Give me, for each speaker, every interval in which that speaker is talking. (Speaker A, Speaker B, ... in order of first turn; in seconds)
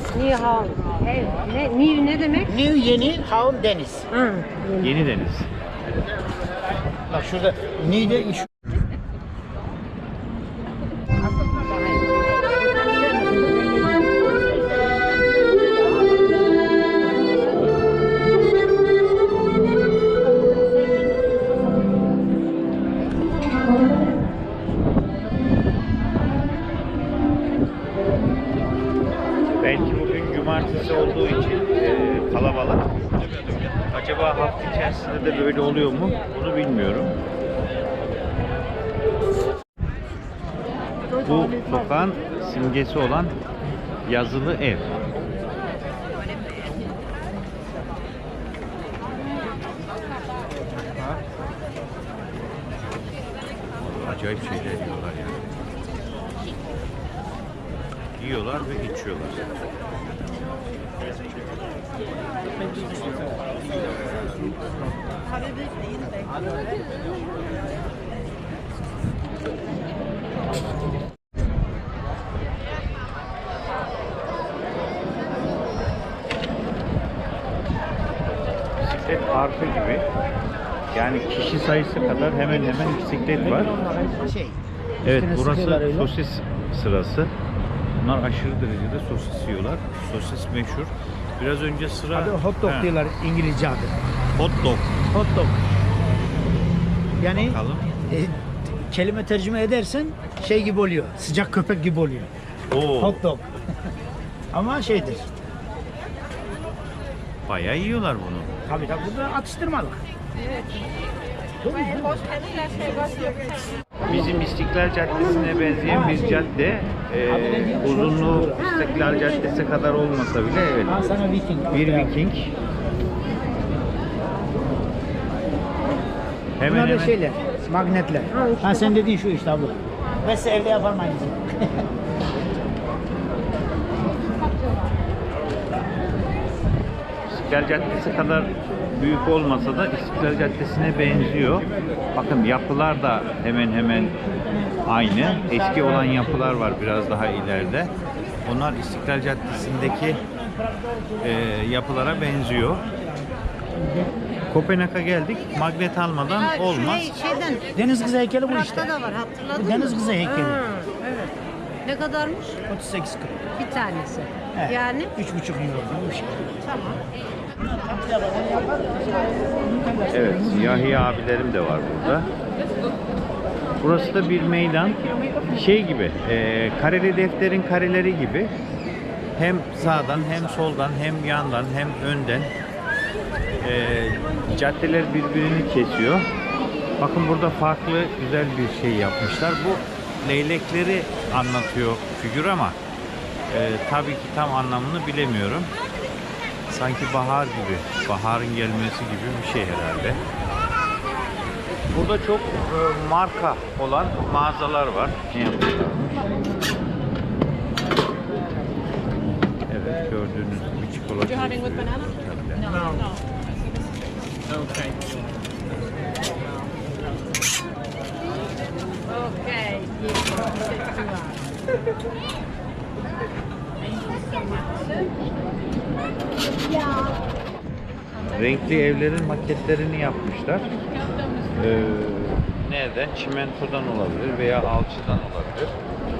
Speaker A: 0.1-2.5, 4.1-4.9, 156.4-157.7, 158.5-162.6, 163.6-165.1
Speaker B: 2.4-4.1, 7.1-8.5, 83.6-86.1, 92.1-94.0, 95.1-95.6, 97.2-102.3, 103.0-103.5, 104.5-105.3, 108.6-110.0, 111.6-112.4, 115.8-116.5, 117.3-118.7, 120.8-122.1, 126.7-131.8, 144.3-146.7, 149.9-151.3, 157.7-159.0, 159.5-160.6, 162.7-163.5, 164.5-166.5, 167.6-171.0
Speaker C: 4.8-5.5, 29.6-32.9, 33.9-37.1, 41.2-43.3, 44.0-44.9, 53.8-55.4, 58.2-59.5, 78.8-80.0, 80.9-83.7, 85.0-87.3, 88.0-92.9, 94.3-94.9, 97.2-97.9, 102.7-103.2, 107.5-108.6, 114.0-121.1, 121.7-122.5, 126.6-127.2, 137.3-144.2, 144.8-147.9, 148.4-150.2, 151.2-152.8, 154.5-157.2, 170.1-172.3, 173.8-178.5, 179.4-182.5, 183.6-186.3, 187.0-192.8, 193.5-195.7, 196.7-200.2, 201.9-206.3, 209.7-212.8, 228.3-230.8, 231.5-235.7